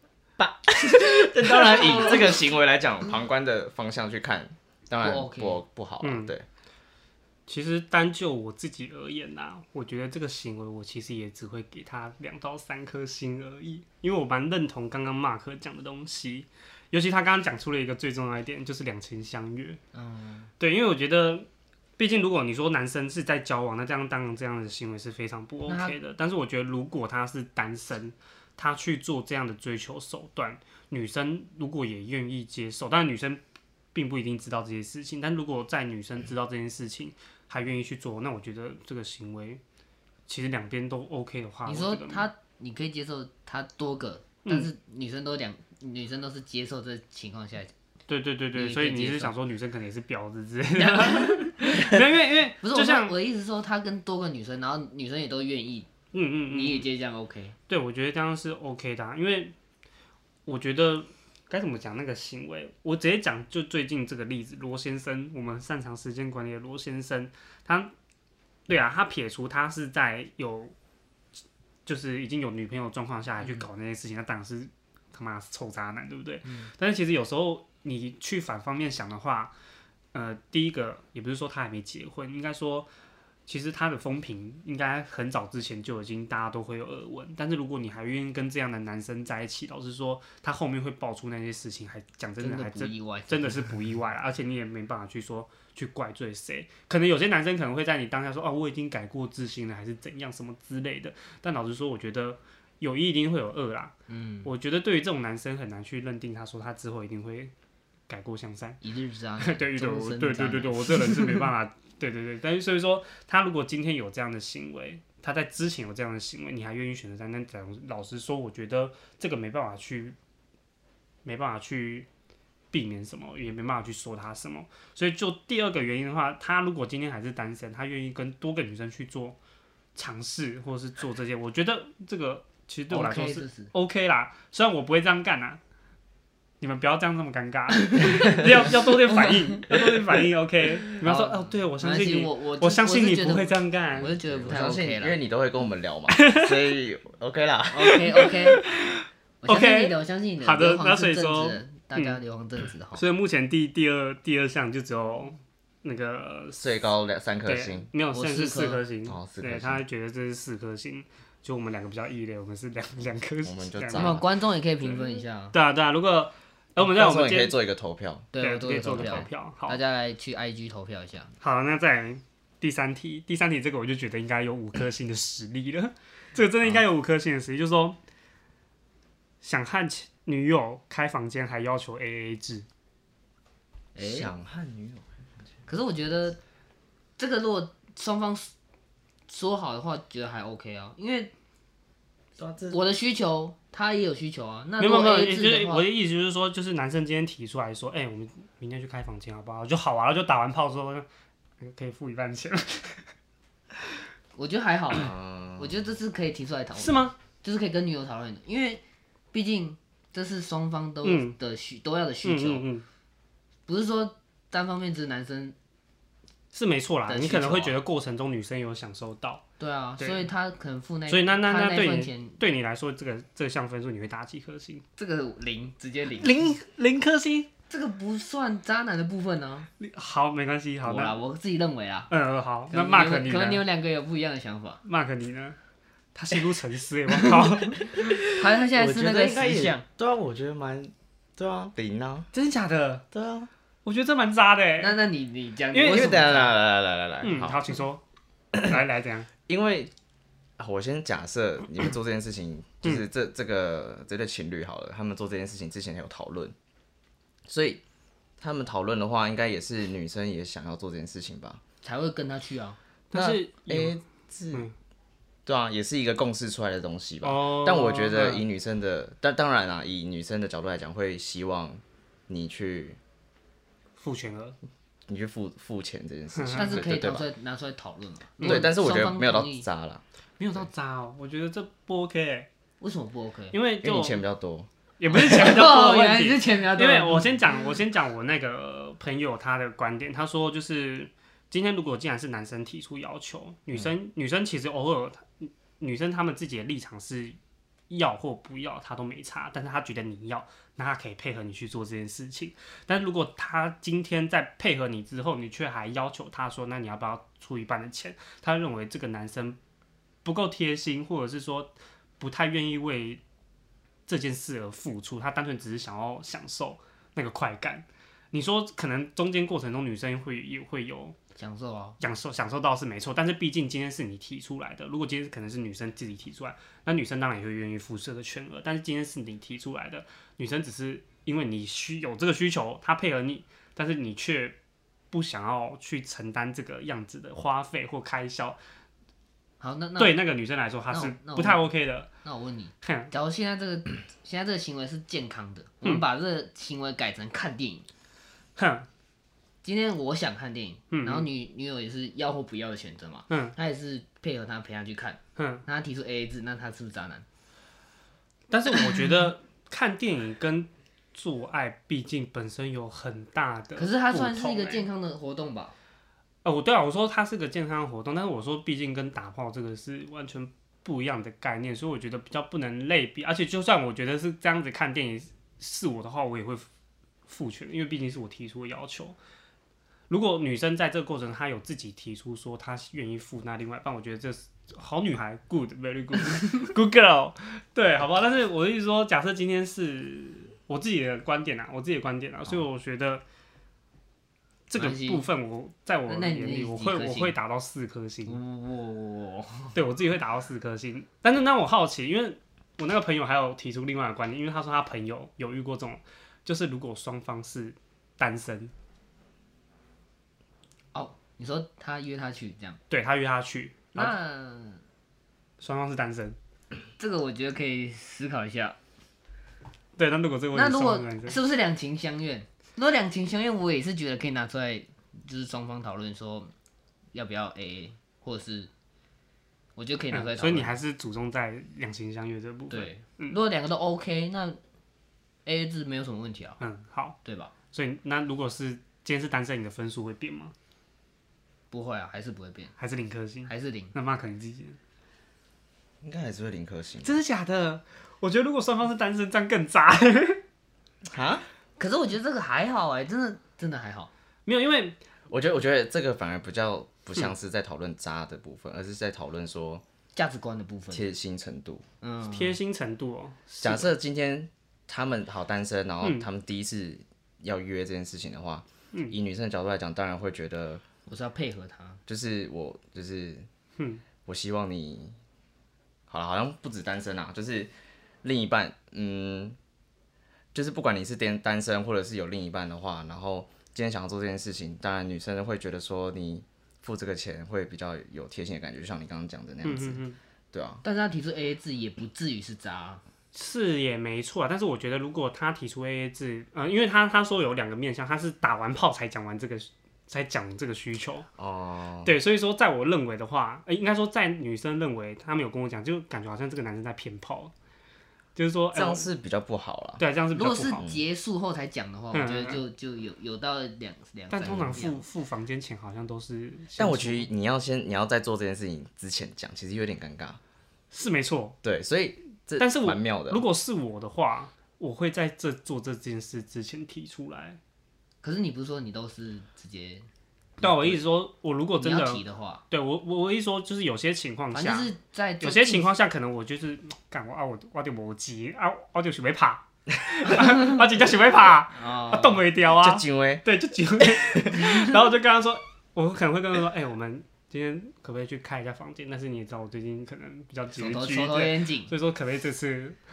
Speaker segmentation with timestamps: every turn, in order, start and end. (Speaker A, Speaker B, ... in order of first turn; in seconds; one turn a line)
Speaker A: 0.4-6.5
Speaker B: 1.5-2.4
Speaker B: 5.0-5.6
Speaker C: 6.0-6.3
Speaker C: 7.5-19.8
Speaker B: 19.9-20.5
Speaker C: 20.6-21.5
Speaker C: 22.0-33.4
Speaker B: 25.7-25.9
Speaker C: 33.9-39.6
Speaker C: 40.3-42.3
Speaker B: 41.7-47.7
Speaker C: 48.1-53.1
Speaker B: 48.5-49.3
Speaker B: 50.8-52.0
Speaker B: 52.6-55.9
Speaker C: 56.1-56.9
Speaker B: 56.5-57.6
Speaker C: 57.7-59.5
Speaker C: 60.5-67.9
Speaker C: 68.7-70.7
Speaker C: 71.9-79.5
Speaker C: 80.1-82.9
Speaker C: 83.5-107.5
Speaker B: 92.4-93.8
Speaker B: 104.1-104.5
Speaker C: 108.1-108.8
Speaker B: 108.8-111.5
Speaker C: 109.4-120.2
Speaker C: 121.2-122.1
Speaker C: 122.7-129.4
Speaker C: 129.9-135.6
Speaker B: 132.9-133.7
Speaker C: 136.6-144.2
Speaker B: 137.8-139.6
Speaker B: 141.0-145.2
Speaker A: 144.3-148.3
Speaker C: 146.1-146.5
Speaker B: 147.7-148.6
Speaker C: 148.5-152.2
Speaker B: 149.4-153.0
Speaker C: 152.9-156.6
Speaker A: 156.6-157.9
Speaker C: 157.5-164.2
Speaker B: 158.1-158.8
Speaker A: 159.1-159.8
Speaker A: 163.4-164.3
Speaker B: 163.9-165.6
Speaker C: 165.5-167.6
Speaker A: 166.8-168.3
Speaker B: 168.3-171.3
Speaker C: 168.4-169.8
Speaker A: 168.8-169.3
Speaker C: 171.4-178.0
Speaker C: 179.4-182.7
Speaker B: 183.9-184.3
Speaker A: 184.0-185.1
Speaker B: 185.7-186.4
Speaker B: 187.2-188.5
Speaker B: 189.3-191.3
Speaker A: 192.4-192.8
Speaker B: 192.7-195.8
Speaker C: 194.8-201.1
Speaker C: 201.6-203.1
Speaker B: 204.3-208.8
Speaker A: 204.9-205.9
Speaker C: 206.8-207.2
Speaker B: 209.3-212.7
Speaker C: 211.0-211.4
Speaker C: 212.2-212.8
Speaker B: 213.7-215.6
Speaker C: 216.5-219.4
Speaker B: 217.1-217.7
Speaker B: 219.6-222.4
Speaker C: 220.0-220.3
Speaker C: 221.1-224.8
Speaker B: 225.0-226.6
Speaker C: 226.2-227.5
Speaker B: 227.7-229.7
Speaker C: 229.8-231.2
Speaker B: 230.8-232.1
Speaker C: 232.1-233.6
Speaker B: 232.7-234.8
Speaker C: 234.8-235.6
Speaker C: 236.2-237.9
Speaker B: 237.2-239.8
Speaker A: 238.0-242.3
Speaker C: 242.3-243.1
Speaker A: 243.1-243.5
Speaker C: 243.8-245.0
Speaker B: 244.8-246.6
Speaker C: 245.7-246.1
Speaker A: 245.8-247.6
Speaker C: 247.2-248.0
Speaker A: 248.5-248.8
Speaker C: 248.6-249.3
Speaker A: 249.5-249.9
Speaker A: 250.6-256.6
Speaker A: 257.5-257.8
Speaker A: 258.4-261.6
Speaker B: 261.8-262.8
Speaker C: 263.1-264.0
Speaker A: 263.1-264.7
Speaker A: 265.5-273.0
Speaker C: 267.2-268.4
Speaker C: 274.0-274.6
Speaker A: 275.1-277.3
Speaker C: 276.3-276.8
Speaker B: 276.6-279.6
Speaker C: 278.4-278.7
Speaker A: 278.4-280.0
Speaker C: 280.4-282.5
Speaker B: 282.8-283.6
Speaker C: 283.5-284.2
Speaker A: 283.8-284.7
Speaker C: 285.0-297.4
Speaker B: 285.1-287.4
Speaker C: 297.9-309.6
Speaker C: 310.2-313.2
Speaker C: 314.1-321.2
Speaker B: 321.4-322.0
Speaker C: 322.0-334.6
Speaker C: 335.1-338.6
Speaker B: 339.6-340.2
Speaker C: 340.0-342.1
Speaker B: 340.9-341.7
Speaker B: 342.2-347.9
Speaker C: 342.8-343.1
Speaker C: 348.6-348.9
Speaker B: 349.6-357.2
Speaker C: 350.9-351.3
Speaker C: 353.3-353.6
Speaker C: 355.4-355.6
Speaker C: 358.5-364.9
Speaker B: 363.8-365.8
Speaker C: 366.4-376.7
Speaker C: 377.3-379.2
Speaker C: 380.1-393.2
Speaker C: 394.7-398.4
Speaker B: 394.8-395.3
Speaker B: 396.1-397.4
Speaker B: 398.3-399.8
Speaker C: 399.7-408.7
Speaker B: 410.9-412.8
Speaker C: 412.9-414.1
Speaker B: 413.9-414.8
Speaker C: 415.6-416.4
Speaker B: 417.0-418.8
Speaker C: 420.0-421.4
Speaker B: 420.5-426.5
Speaker B: 427.1-428.7
Speaker B: 429.8-430.8
Speaker C: 430.1-433.4
Speaker B: 432.7-434.6
Speaker B: 435.5-436.6
Speaker C: 436.6-437.2
Speaker B: 437.2-437.5
Speaker C: 437.7-440.5
Speaker B: 441.7-442.8
Speaker C: 442.8-444.8
Speaker B: 443.5-443.9
Speaker A: 446.0-447.1
Speaker C: 447.0-450.4
Speaker A: 451.1-451.4
Speaker B: 451.8-454.1
Speaker C: 454.5-455.0
Speaker A: 455.3-459.8
Speaker B: 460.1-461.1
Speaker A: 460.9-461.8
Speaker B: 462.0-462.6
Speaker C: 462.3-463.9
Speaker A: 463.6-470.8
Speaker C: 466.0-466.3
Speaker B: 471.1-472.0
Speaker A: 472.1-473.5
Speaker C: 473.8-474.0
Speaker A: 474.3-475.1
Speaker A: 476.1-477.7
Speaker A: 478.2-479.6
Speaker A: 480.5-490.8
Speaker C: 489.6-490.2
Speaker B: 490.8-493.0
Speaker C: 493.3-501.3
Speaker A: 501.4-502.1
Speaker C: 502.0-507.5
Speaker C: 508.4-509.1
Speaker A: 508.7-510.0
Speaker C: 510.0-510.9
Speaker B: 510.3-515.0
Speaker C: 512.1-512.6
Speaker C: 514.3-517.3
Speaker A: 516.8-520.4
Speaker C: 520.9-521.6
Speaker A: 521.6-523.4
Speaker C: 522.6-527.6
Speaker B: 528.2-530.1
Speaker C: 530.6-553.0
Speaker B: 530.6-531.0
Speaker B: 531.8-532.6
Speaker B: 534.5-535.9
Speaker B: 541.7-542.4
Speaker A: 542.7-543.5
Speaker A: 544.0-544.7
Speaker B: 550.8-551.9